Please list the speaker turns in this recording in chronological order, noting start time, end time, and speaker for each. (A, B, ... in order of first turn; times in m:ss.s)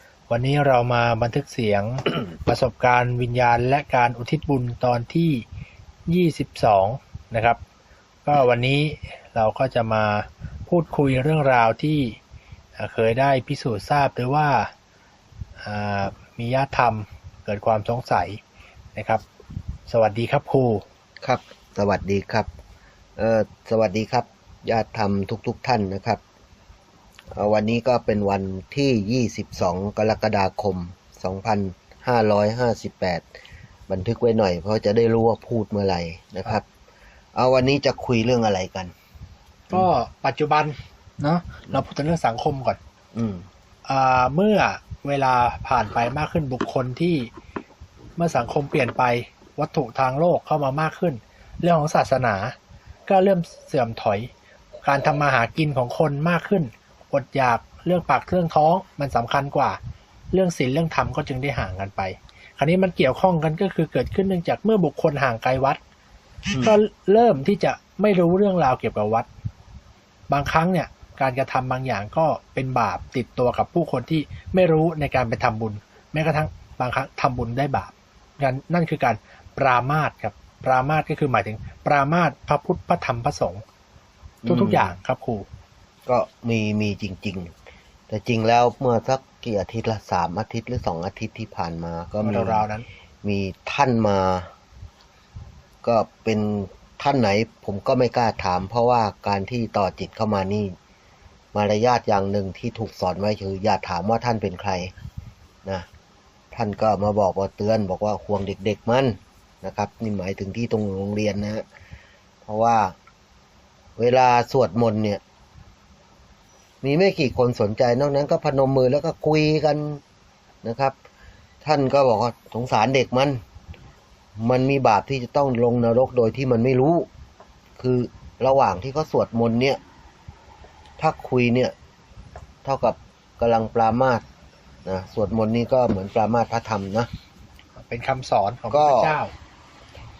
0:00.3-0:05.4 A
0:06.1-0:07.6 A
0:08.2-0:12.2 A
0:12.8-0:14.7 A
0:15.6-0:18.4 A
0:19.0-0:19.2 A
0:19.9-0:20.8 A
0:21.2-0:22.5 B
0:23.2-0:26.2 B
0:27.3-0:33.2 B
0:33.9-0:36.6 B
0:37.3-0:38.9 B
0:39.7-0:42.8 A
0:43.1-0:43.4 B
0:43.8-0:47.3 A
0:48.2-0:52.6 A
0:53.1-0:54.3 A
0:54.8-0:59.8 A
1:00.3-1:05.8 A
1:06.5-1:09.3 A
1:10.3-1:23.6 A
1:24.4-1:24.9 B
1:24.5-1:25.4 A
1:26.1-1:27.5 B
1:28.1-1:32.6 B
1:32.2-1:32.9 A
1:33.2-1:34.5 B
1:35.8-1:40.7 B
1:41.5-1:44.9 B
1:46.5-1:51.6 B
1:52.4-1:52.9 B
1:54.0-1:55.2 B
1:56.8-2:00.0 B
2:00.6-2:00.9 B
2:01.6-2:03.4 B
2:04.4-2:07.1 B
2:07.8-2:09.8 B
2:11.0-2:11.7 B
2:12.6-2:14.2 B
2:14.8-2:17.1 B
2:17.8-2:19.3 A
2:18.7-2:19.1 B